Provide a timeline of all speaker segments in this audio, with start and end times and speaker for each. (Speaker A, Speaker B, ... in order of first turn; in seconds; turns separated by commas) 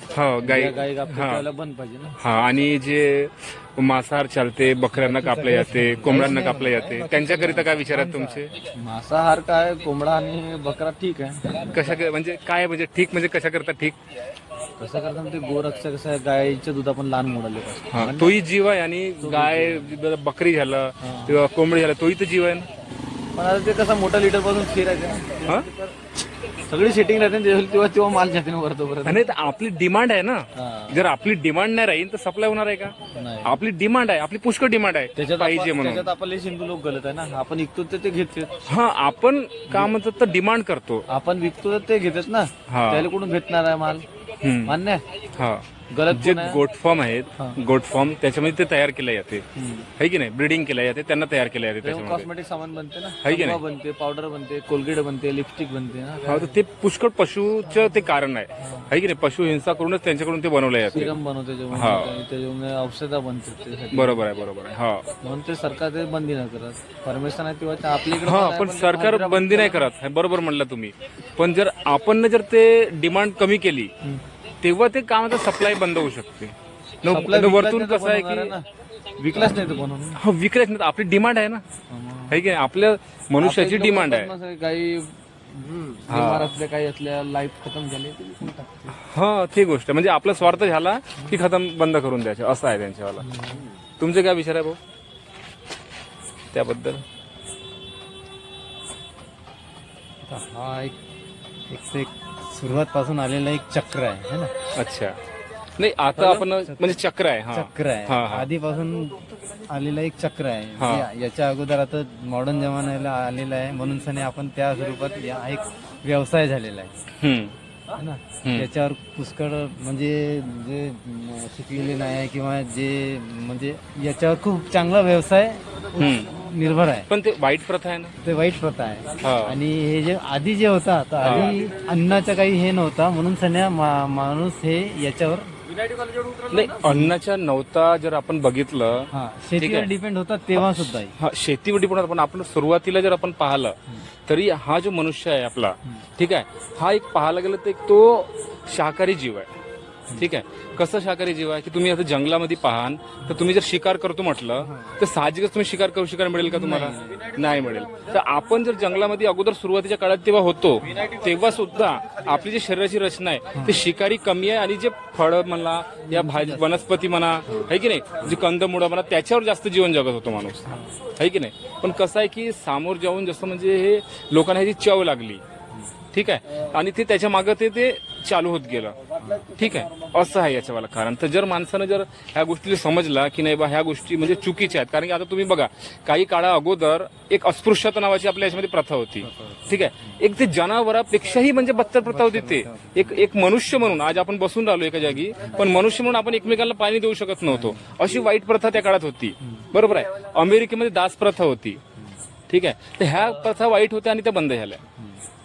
Speaker A: 0.1-1.5, Speaker B: 0.4-2.1, Speaker A: 2.2-8.5, Speaker C: 5.0-8.5, Speaker B: 5.9-6.2, Speaker B: 8.8-11.9, Speaker A: 11.5-14.0, Speaker B: 14.8-18.4, Speaker A: 17.9-22.7, Speaker B: 19.2-19.9, Speaker B: 21.0-21.4, Speaker B: 23.4-26.0, Speaker B: 26.7-29.3, Speaker A: 29.0-36.1, Speaker B: 30.6-31.0, Speaker B: 33.1-33.6, Speaker B: 35.2-38.6, Speaker A: 38.7-41.0, Speaker B: 41.1-44.1, Speaker A: 42.7-43.1, Speaker A: 44.4-44.8, Speaker B: 44.7-45.0, Speaker A: 45.4-49.5, Speaker B: 45.9-46.6, Speaker B: 49.6-49.9, Speaker A: 50.0-52.3, Speaker B: 51.8-56.5, Speaker A: 53.2-53.6, Speaker A: 56.2-61.2, Speaker B: 58.6-58.9, Speaker B: 60.9-64.2, Speaker A: 61.7-62.2, Speaker A: 63.9-65.0, Speaker B: 65.2-69.8, Speaker A: 68.1-73.9, Speaker A: 74.6-78.5, Speaker B: 77.1-80.2, Speaker A: 80.2-81.6, Speaker B: 81.9-82.4, Speaker A: 82.3-84.3, Speaker B: 83.4-88.5, Speaker A: 86.1-86.5, Speaker A: 89.0-93.3, Speaker C: 93.2-93.7, Speaker A: 94.0-94.8, Speaker A: 96.5-97.0, Speaker C: 100.2-101.0, Speaker C: 101.7-104.5, Speaker A: 104.8-105.2, Speaker A: 105.8-108.5, Speaker C: 106.1-107.0, Speaker C: 107.5-116.9, Speaker A: 110.8-111.1, Speaker A: 117.2-117.5, Speaker C: 118.0-127.1, Speaker A: 126.0-126.3, Speaker A: 127.1-128.2, Speaker C: 128.2-135.5, Speaker A: 129.2-129.6, Speaker A: 131.2-131.6, Speaker B: 135.8-136.5, Speaker A: 136.5-139.9, Speaker C: 136.8-137.1, Speaker C: 139.1-141.1, Speaker A: 140.6-143.8, Speaker A: 144.3-149.5, Speaker A: 150.2-175.4, Speaker C: 154.6-155.0, Speaker C: 156.4-157.4, Speaker C: 163.5-163.8, Speaker C: 166.1-166.9, Speaker C: 167.5-168.4, Speaker A: 176.1-179.0, Speaker C: 179.2-179.5, Speaker A: 179.5-201.8, Speaker C: 189.2-190.2, Speaker C: 192.1-193.2, Speaker C: 195.1-195.5, Speaker C: 197.5-197.9, Speaker C: 199.4-199.7, Speaker A: 202.5-204.8